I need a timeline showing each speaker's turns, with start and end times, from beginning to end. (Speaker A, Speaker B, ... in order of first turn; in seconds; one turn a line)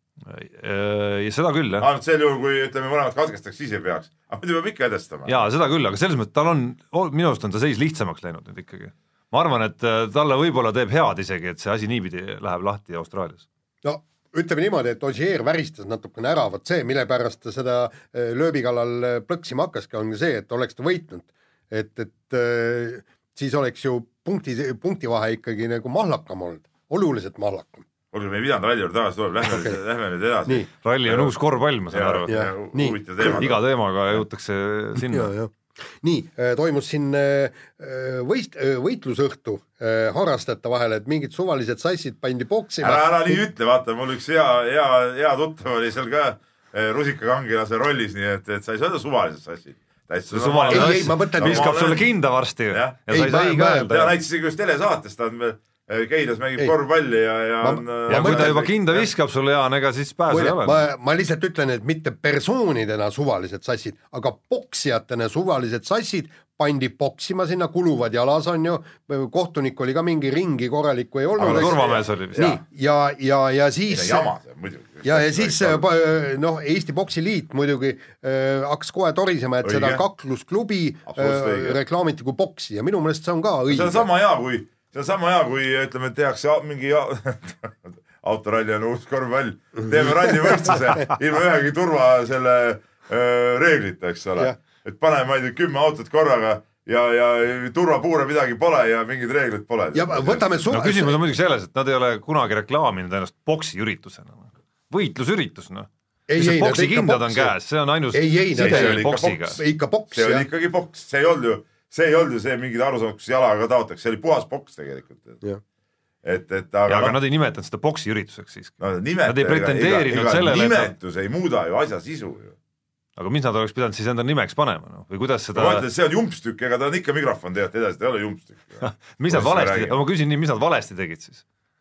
Speaker A: 0.3-1.9
Speaker B: 1.8-5.5
Speaker A: 5.2-13.4
Speaker C: 13.8-27.9
Speaker B: 28.1-31.4
Speaker C: 29.4-29.8
Speaker A: 30.8-32.3
Speaker B: 31.9-34.2
Speaker C: 32.3-33.3
Speaker A: 33.2-35.3
Speaker C: 35.0-43.4
Speaker B: 42.8-52.1
Speaker A: 50.3-54.1
Speaker C: 50.7-51.7
Speaker B: 52.7-53.0
Speaker C: 53.1-54.0
Speaker B: 53.8-59.1
Speaker C: 57.6-58.6
Speaker A: 58.1-60.8
Speaker C: 60.3-74.3
Speaker B: 71.3-72.6
Speaker A: 71.4-72.5
Speaker B: 73.9-75.8
Speaker C: 75.0-84.0
Speaker B: 79.6-80.0
Speaker B: 81.1-81.8
Speaker B: 83.7-100.6
Speaker C: 89.8-91.1
Speaker C: 99.9-101.2
Speaker A: 100.7-109.6
Speaker C: 106.3-107.5
Speaker C: 108.1-110.4
Speaker B: 108.5-115.4
Speaker B: 116.2-117.2
Speaker A: 116.9-120.9
Speaker B: 118.8-122.5
Speaker A: 123.2-125.8
Speaker B: 125.5-130.0
Speaker A: 128.8-131.4